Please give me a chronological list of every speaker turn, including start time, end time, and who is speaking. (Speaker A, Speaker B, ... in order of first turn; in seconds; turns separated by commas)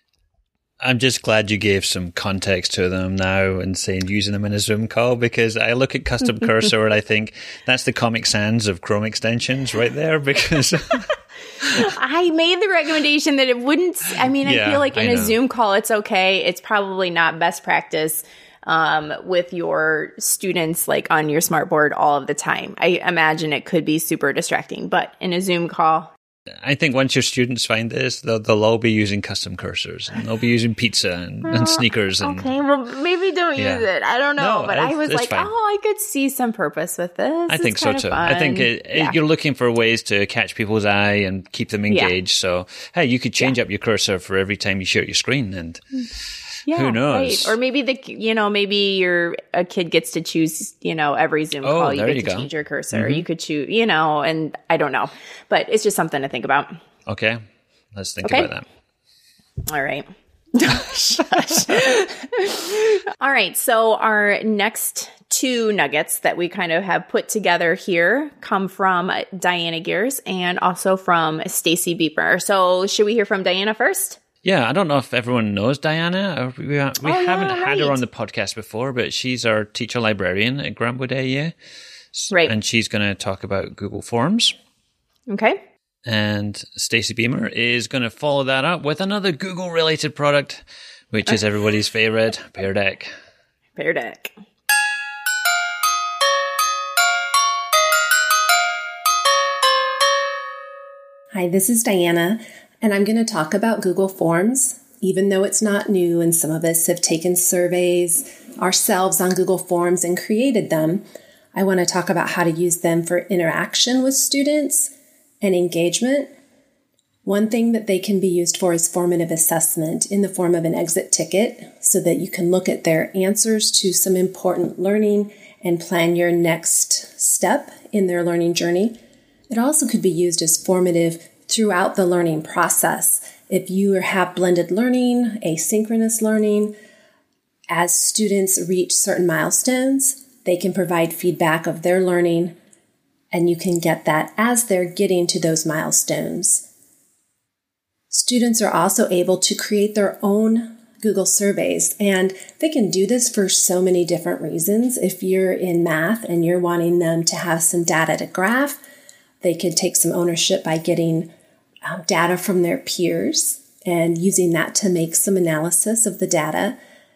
Speaker A: 0.8-11.1, Speaker B: 11.7-26.1, Speaker A: 14.4-15.3, Speaker A: 26.6-32.5, Speaker B: 31.4-39.1, Speaker A: 33.5-33.8, Speaker A: 34.4-35.5, Speaker A: 37.5-46.0, Speaker B: 46.7-56.8, Speaker A: 46.7-47.5, Speaker A: 51.6-53.2, Speaker A: 57.0-57.4, Speaker A: 57.9-58.6, Speaker B: 58.2-58.5, Speaker B: 59.6-74.2, Speaker A: 74.4-81.5, Speaker B: 77.0-78.0, Speaker A: 82.1-84.5, Speaker B: 85.3-85.6, Speaker A: 86.0-93.1, Speaker B: 93.8-94.3, Speaker C: 101.3-116.3, Speaker C: 117.2-129.0, Speaker C: 129.5-136.7, Speaker C: 137.7-142.6, Speaker C: 143.3-146.6, Speaker C: 148.1-158.8, Speaker C: 159.4-161.3, Speaker C: 161.8-166.8